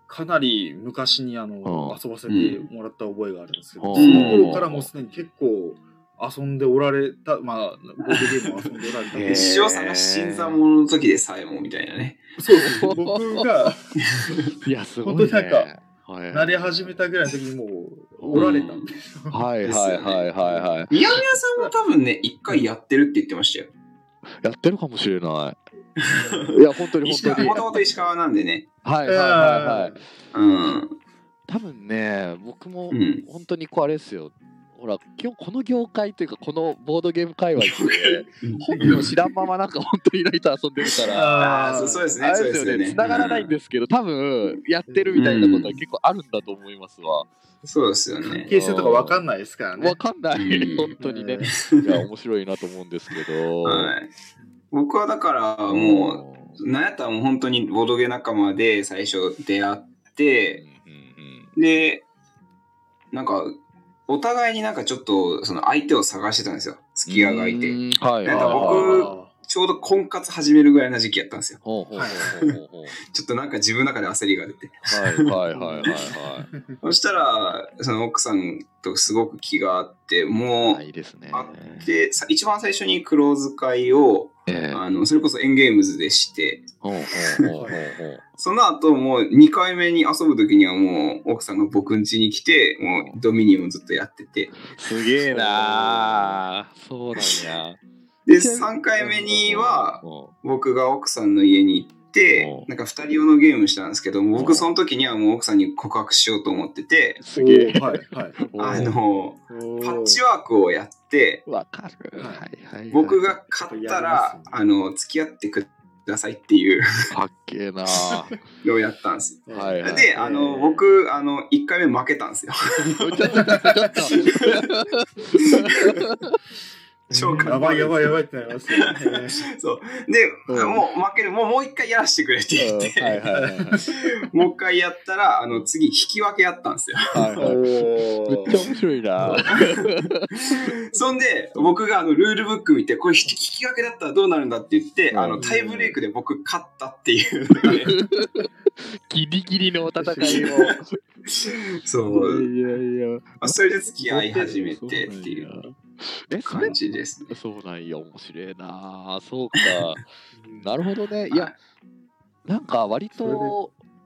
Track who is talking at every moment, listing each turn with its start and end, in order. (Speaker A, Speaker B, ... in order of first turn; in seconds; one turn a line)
Speaker A: 0.1-9.6
Speaker B: 1.6-2.0
Speaker C: 2.3-2.6
Speaker B: 3.8-4.9
Speaker C: 4.0-4.5
Speaker B: 9.1-10.6
Speaker C: 9.2-12.3
Speaker A: 12.4-13.8
Speaker B: 12.6-13.7
Speaker C: 14.1-14.4
Speaker B: 14.6-17.2
Speaker A: 15.0-15.7
Speaker A: 16.3-19.4
Speaker B: 18.2-18.5
Speaker C: 18.3-18.9
Speaker B: 19.3-20.9
Speaker C: 19.6-20.3
Speaker A: 20.4-20.7
Speaker C: 20.9-23.7
Speaker B: 24.4-25.6
Speaker C: 26.0-28.7
Speaker A: 26.1-26.4
Speaker B: 26.5-27.6
Speaker A: 27.3-27.7
Speaker B: 28.8-30.0
Speaker A: 29.1-30.0
Speaker C: 30.3-31.0
Speaker B: 31.5-47.3
Speaker C: 32.9-33.2
Speaker C: 37.6-39.3
Speaker C: 40.9-43.5
Speaker A: 41.1-42.1
Speaker A: 44.9-45.5
Speaker C: 45.1-45.8
Speaker C: 47.6-48.5
Speaker A: 48.3-50.0
Speaker B: 48.4-49.2
Speaker B: 49.8-53.9
Speaker C: 50.4-51.0
Speaker A: 51.0-51.5
Speaker C: 51.5-52.0
Speaker C: 53.6-54.1
Speaker C: 54.7-60.6
Speaker B: 55.7-56.6
Speaker B: 60.6-61.5
Speaker C: 61.6-62.0
Speaker C: 63.1-71.6
Speaker B: 67.1-69.1
Speaker A: 68.3-69.3
Speaker B: 71.6-73.0
Speaker A: 71.9-72.3
Speaker C: 72.2-72.6
Speaker C: 73.1-76.1
Speaker B: 74.9-76.5
Speaker A: 75.5-76.8
Speaker C: 76.8-86.7
Speaker B: 80.6-81.9
Speaker B: 84.5-84.8
Speaker B: 86.8-88.2
Speaker A: 87.6-87.8
Speaker C: 88.4-94.7
Speaker B: 92.9-93.2
Speaker B: 94.6-97.8
Speaker A: 95.6-95.8
Speaker C: 98.3-107.2
Speaker B: 98.4-100.3
Speaker B: 102.4-102.7
Speaker B: 104.3-104.7
Speaker B: 107.2-109.0
Speaker A: 107.3-108.4
Speaker C: 108.5-111.5
Speaker A: 109.5-110.2
Speaker B: 111.5-113.4
Speaker A: 112.2-112.5
Speaker C: 112.9-116.9
Speaker A: 113.7-114.6
Speaker B: 117.1-118.4
Speaker C: 118.6-123.5
Speaker A: 119.5-120.8
Speaker B: 119.5-120.2
Speaker B: 123.0-126.4
Speaker A: 123.5-123.9
Speaker C: 124.1-124.7
Speaker C: 127.1-128.2
Speaker B: 127.1-127.6
Speaker A: 127.2-129.5
Speaker C: 128.7-133.2
Speaker B: 130.5-130.8
Speaker B: 132.6-133.9
Speaker A: 133.3-133.9
Speaker C: 133.9-137.6
Speaker B: 137.1-140.7
Speaker A: 137.4-138.6
Speaker C: 140.5-148.0
Speaker B: 145.1-145.5
Speaker A: 145.4-146.0
Speaker B: 147.7-151.0
Speaker A: 150.0-150.5
Speaker C: 150.2-150.8
Speaker C: 151.3-152.5
Speaker B: 152.1-153.6
Speaker C: 153.4-155.5
Speaker A: 154.1-154.6
Speaker B: 154.7-156.8
Speaker C: 156.5-157.3
Speaker B: 157.3-160.0
Speaker A: 160.3-160.7
Speaker B: 160.6-161.5
Speaker B: 162.5-163.7
Speaker A: 163.1-163.6